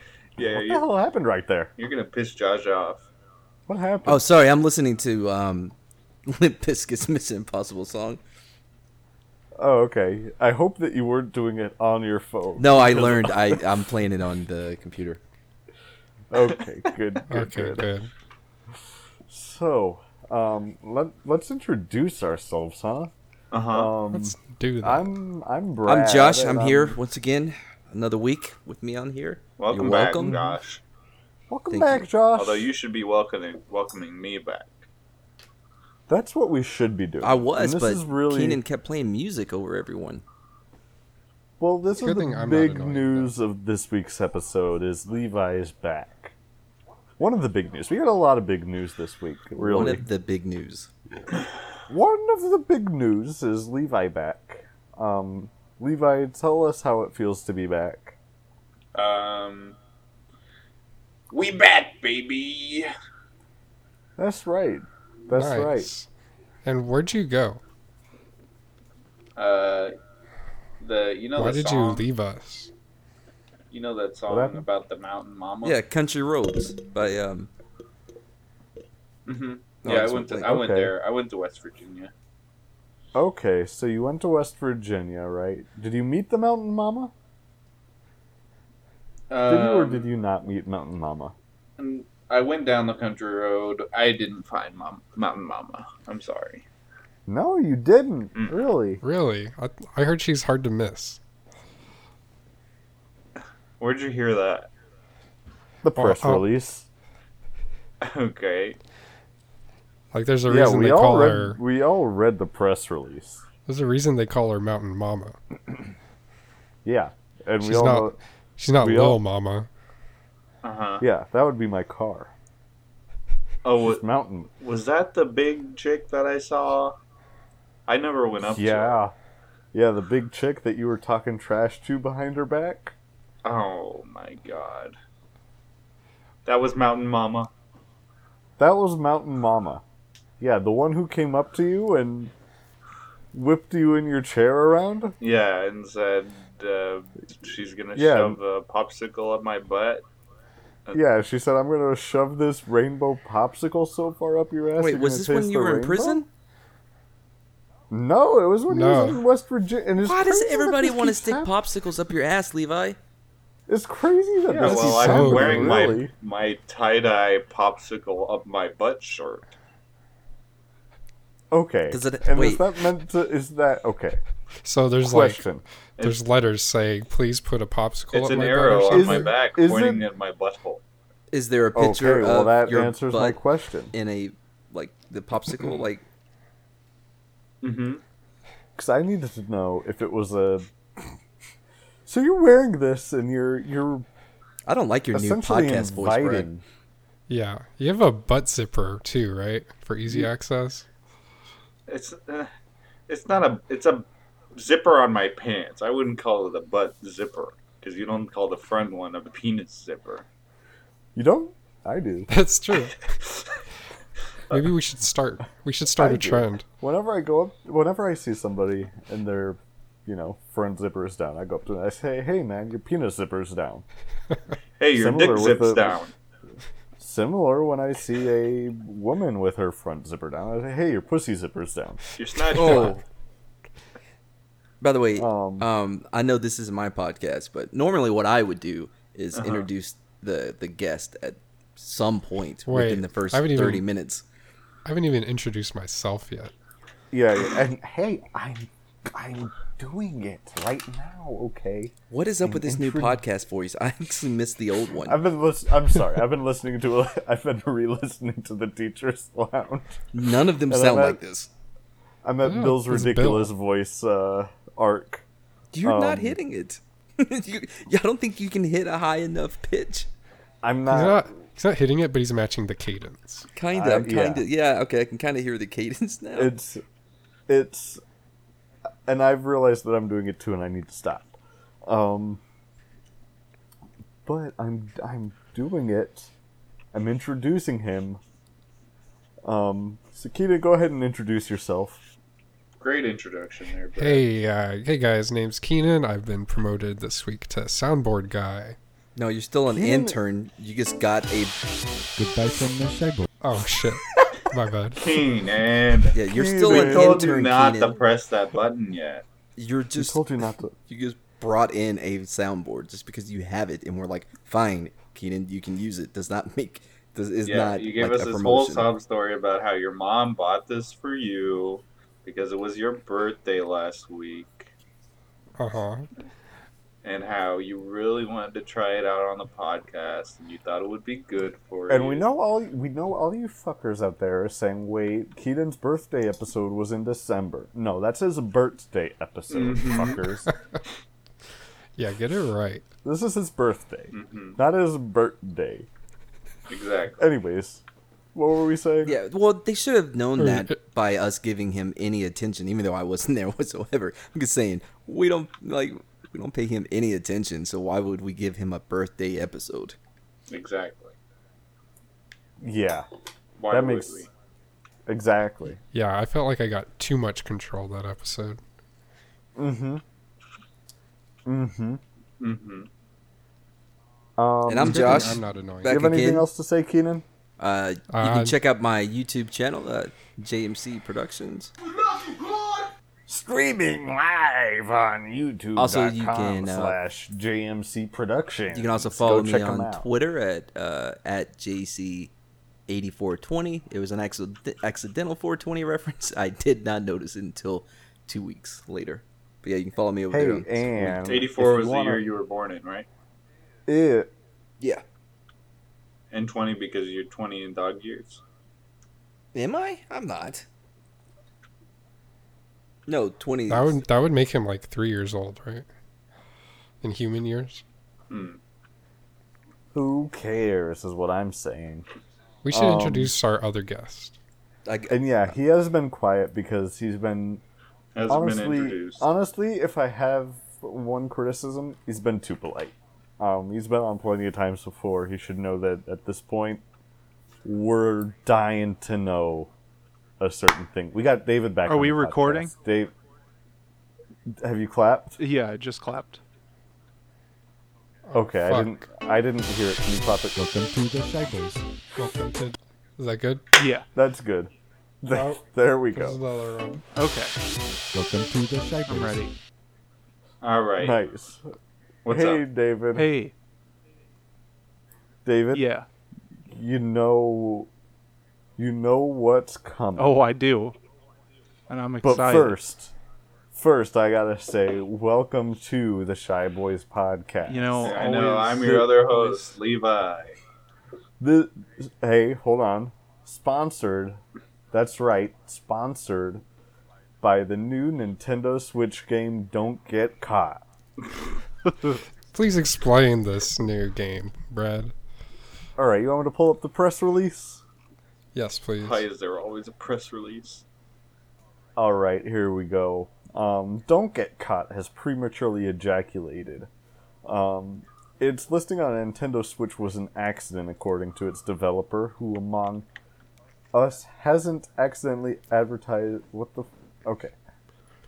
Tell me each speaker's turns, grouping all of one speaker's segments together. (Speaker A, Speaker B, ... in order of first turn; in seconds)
Speaker A: 0.4-0.8, 1.8-3.0, 23.5-23.9, 29.6-30.8, 32.4-34.7, 59.0-59.8, 61.3-62.9, 69.4-70.0, 70.8-72.1, 73.7-75.8, 79.3-82.1, 89.3-90.1, 91.8-96.7, 98.4-98.7, 103.8-104.7, 108.0-108.8, 120.6-121.0, 123.6-124.0, 124.6-127.0, 127.9-129.0, 133.4-134.9, 136.5-137.5, 145.2-150.1, 164.5-169.5, 178.1-180.8, 187.6-188.0, 201.9-202.5, 203.1-210.3, 224.8-226.1, 232.2-233.0, 239.3-239.7, 292.8-294.3, 304.9-309.2, 317.5-324.7, 327.0-332.2, 339.5-340.3, 344.1-344.6, 346.7-347.2, 360.5-361.2, 363.6-364.3, 372.4-372.9, 401.2-403.1, 406.3-408.4, 418.3-418.6, 428.1-429.3, 460.6-461.2, 462.2-462.6, 478.0-480.6, 499.0-500.8
Speaker B: 0.4-1.7, 3.7-4.4, 9.6-13.6, 16.3-17.9, 19.3-23.1, 23.7-27.0, 30.2-30.6, 31.5-32.7, 36.1-38.6, 41.6-46.4, 47.2-50.1, 51.9-58.2, 64.2-65.9, 74.3-74.7, 80.4-80.9, 83.1-87.1, 89.5-91.3, 97.3-99.0, 105.8-106.9, 110.5-113.5, 116.8-118.2, 118.8-119.2, 121.0-122.3, 123.8-124.5, 128.4-129.2, 129.7-132.9, 138.6-139.8, 140.4-142.3, 143.3-145.2, 147.9-148.4, 150.9-156.3, 157.9-161.5, 163.7-166.1, 171.5-174.2, 175.0-175.6, 178.9-180.1, 181.8-183.9, 188.8-191.2, 192.1-194.1, 195.1-196.6, 211.2-212.3, 216.0-223.8, 224.9-226.0, 227.0-232.0, 235.2-235.7, 247.1-253.2, 255.0-260.0, 260.7-261.2, 262.2-265.2, 265.8-266.4, 270.6-271.3, 273.7-274.5, 276.4-276.8, 277.5-278.0, 279.1-282.4, 284.3-286.3, 286.9-288.2, 289.4-292.0, 299.7-300.2, 306.3-307.4, 309.9-310.8, 331.9-340.5, 343.0-345.9, 347.2-347.8, 348.3-349.2, 362.6-363.1, 363.7-364.3, 365.1-365.8, 369.6-370.0, 371.5-372.0, 374.4-377.2, 383.3-390.1, 400.3-402.3, 403.9-404.3, 419.9-422.1, 422.7-423.3, 425.1-427.6, 428.3-436.8, 437.6-439.7, 440.4-443.1, 444.5-445.4, 448.3-450.6, 454.1-456.4, 461.0-461.7, 462.3-463.3, 465.4-465.8, 466.7-467.9, 468.8-470.3, 472.2-473.1, 473.7-478.3, 478.8-479.1, 481.4-484.4, 484.9-486.6, 487.4-490.8, 496.0-497.8, 502.0-506.9, 507.4-513.1, 513.9-517.5
Speaker C: 4.1-5.8, 6.3-8.2, 12.6-15.2, 25.9-30.4, 31.7-32.1, 37.2-40.2, 49.6-50.9, 75.6-77.5, 79.8-80.5, 154.8-156.3, 160.0-163.0, 171.9-172.7, 181.3-183.4, 183.9-186.0, 194.7-196.5, 232.5-233.0, 234.8-244.2, 252.1-255.2, 260.1-261.5, 265.7-270.1, 273.5-276.5, 299.2-301.6, 306.1-308.0, 309.6-310.2, 310.9-318.9, 349.1-360.0, 374.7-376.5, 377.6-381.7, 385.8-387.0, 388.7-392.3, 392.9-401.2, 409.6-410.6, 413.1-414.0, 424.9-425.2
Speaker D: 17.3-18.1, 24.1-25.1, 42.0-43.3, 65.3-66.1, 66.7-67.6, 71.4-72.7, 99.0-101.2, 106.0-106.5, 110.1-111.6, 113.7-115.4, 117.6-119.7, 158.7-159.2, 164.6-166.0, 174.7-175.4, 176.0-179.3, 197.3-200.9, 212.3-213.1, 214.5-216.7, 242.7-243.9, 244.8-246.5, 262.4-263.5, 270.9-273.5, 294.0-298.8, 303.4-305.1, 325.6-326.1, 342.0-342.9, 350.4-350.8, 365.9-368.6, 374.8-376.0, 378.1-378.6, 413.7-415.9, 417.0-417.8, 422.6-424.4, 448.3-448.9, 452.2-453.7, 455.3-455.6, 456.1-457.0, 492.5-495.1, 498.5-499.3
Speaker E: 302.1-303.3, 450.6-451.9, 458.1-459.4
Speaker F: 441.9-442.7, 445.4-446.4, 453.8-454.1, 457.1-457.5, 459.1-459.5, 463.1-463.5, 465.7-466.1, 470.2-471.0, 471.9-472.8, 477.7-479.8